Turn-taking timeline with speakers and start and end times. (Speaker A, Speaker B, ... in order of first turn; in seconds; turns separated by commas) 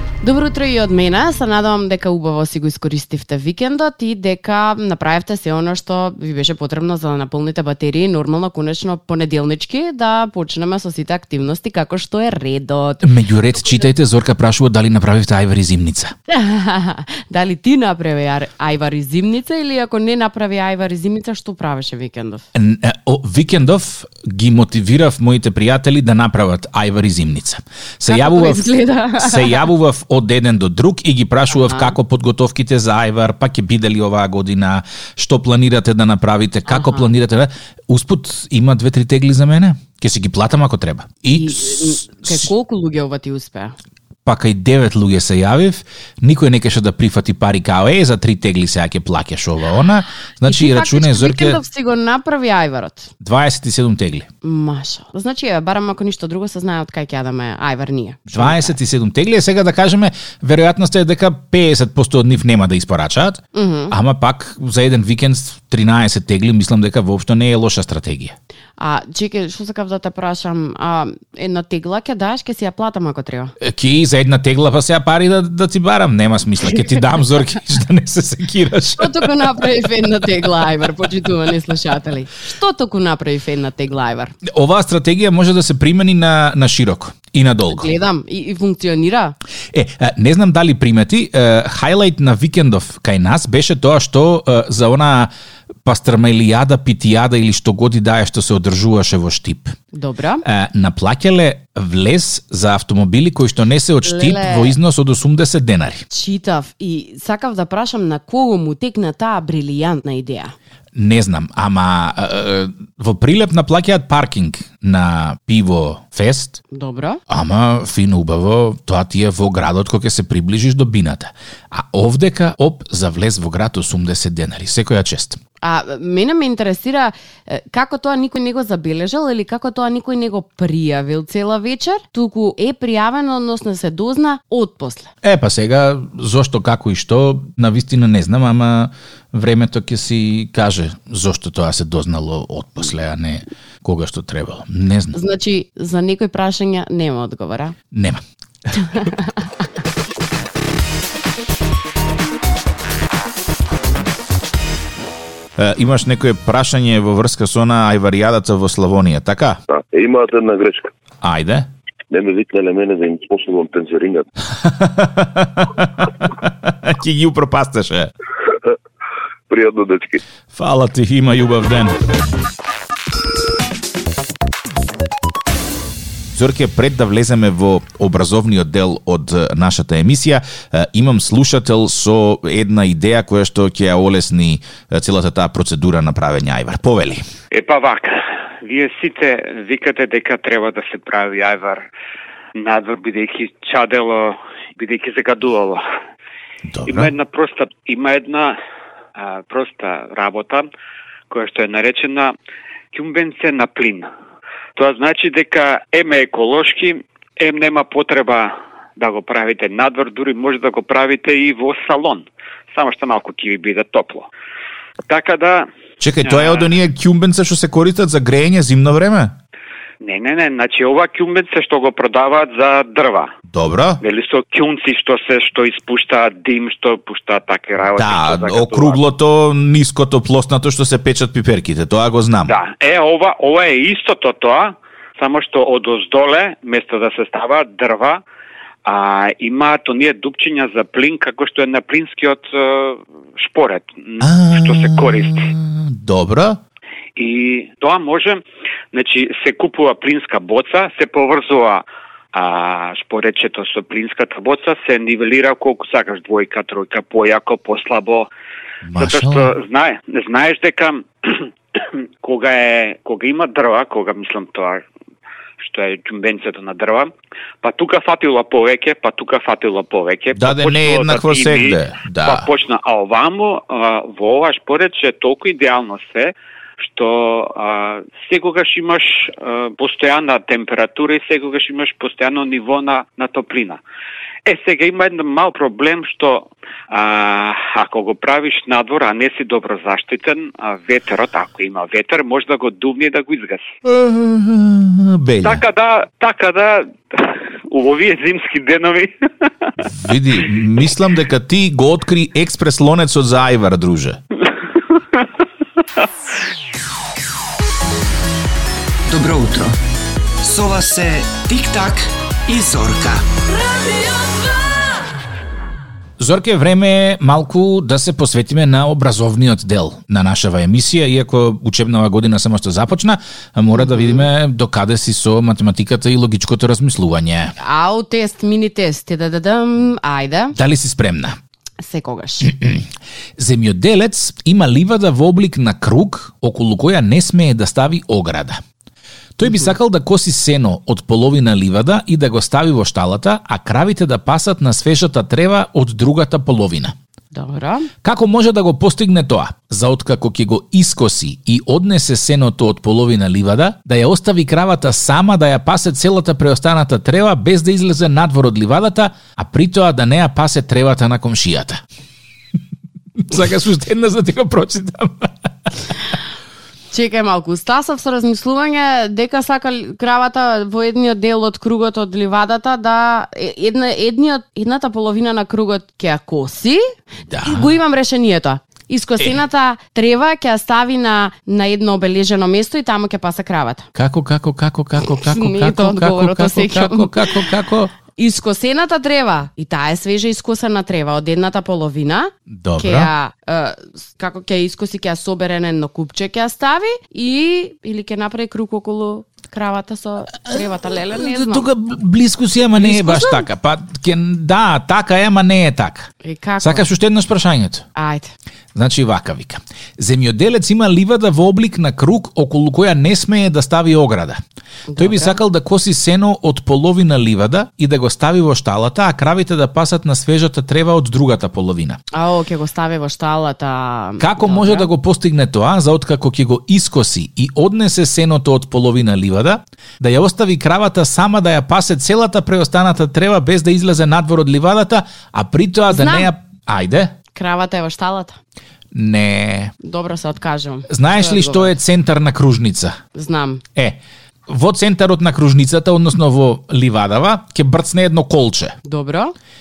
Speaker A: 0.2-13.1, Speaker B: 13.0-16.1, Speaker A: 16.3-22.4, Speaker B: 22.5-28.6, Speaker A: 28.1-29.6, Speaker B: 29.2-42.4, Speaker A: 31.5-31.9, Speaker A: 36.7-37.1, Speaker A: 41.3-43.7, Speaker B: 44.2-51.6, Speaker A: 50.4-53.1, Speaker B: 53.2-54.3, Speaker A: 54.4-58.7, Speaker B: 58.3-68.3, Speaker A: 63.5-64.0, Speaker A: 68.8-73.5, Speaker B: 73.6-79.5, Speaker A: 79.0-84.3, Speaker B: 84.5-87.9, Speaker A: 87.7-89.3, Speaker B: 89.7-95.3, Speaker B: 95.8-99.7, Speaker A: 99.9-100.4, Speaker B: 100.4-106.0, Speaker A: 104.0-104.7, Speaker A: 106.1-110.5, Speaker B: 111.0-116.6, Speaker A: 116.7-117.2, Speaker B: 117.3-125.4, Speaker A: 125.6-135.1, Speaker B: 135.2-145.2, Speaker A: 145.1-147.7, Speaker B: 147.9-148.2, Speaker B: 155.6-159.6, Speaker C: 159.7-160.9, Speaker B: 161.2-161.7, Speaker C: 162.1-164.2, Speaker B: 164.6-168.1, Speaker C: 169.5-170.2, Speaker B: 170.5-171.9, Speaker B: 176.3-187.2, Speaker D: 187.5-191.9, Speaker D: 192.6-195.8, Speaker B: 196.7-197.1, Speaker D: 196.9-198.5, Speaker D: 199.2-200.7, Speaker D: 201.3-202.3, Speaker D: 202.9-204.1, Speaker D: 204.8-214.3, Speaker D: 215.1-215.7, Speaker B: 216.0-219.3, Speaker D: 216.2-216.7, Speaker D: 220.0-223.3, Speaker B: 223.5-224.0, Speaker D: 224.0-229.0, Speaker B: 227.9-232.5, Speaker D: 232.4-238.2, Speaker D: 238.8-245.5, Speaker B: 244.2-246.6, Speaker D: 247.2-248.4, Speaker D: 248.9-258.3, Speaker B: 258.8-259.5, Speaker D: 259.0-264.8, Speaker D: 265.6-267.1, Speaker D: 267.6-283.8, Speaker B: 270.3-272.5, Speaker D: 284.4-293.6, Speaker B: 293.8-295.6, Speaker D: 295.4-299.1, Speaker B: 299.8-304.2, Speaker E: 309.1-309.7, Speaker E: 310.4-313.2, Speaker B: 316.2-327.5, Speaker A: 323.7-324.3, Speaker A: 327.6-330.6, Speaker B: 330.5-331.4, Speaker A: 331.8-332.5, Speaker B: 332.4-332.8, Speaker B: 333.4-338.6, Speaker B: 339.4-346.9, Speaker A: 347.3-347.9, Speaker B: 348.0-361.8, Speaker B: 363.3-365.3, Speaker A: 366.9-376.8, Speaker B: 377.3-377.7, Speaker A: 377.4-383.9, Speaker B: 383.9-387.9, Speaker A: 385.1-387.5, Speaker A: 388.1-401.6, Speaker B: 392.5-393.1, Speaker B: 401.1-406.1, Speaker A: 402.8-403.4, Speaker A: 406.2-406.9, Speaker B: 406.6-407.8, Speaker A: 407.9-408.3, Speaker B: 408.7-414.4, Speaker A: 414.9-415.4, Speaker B: 415.0-422.0, Speaker A: 422.1-424.9, Speaker B: 424.2-437.1, Speaker A: 435.9-436.3, Speaker A: 437.3-438.4, Speaker B: 438.9-439.7, Speaker A: 439.8-441.8, Speaker B: 440.9-442.9, Speaker A: 443.1-443.6, Speaker B: 443.7-448.7, Speaker A: 448.8-449.3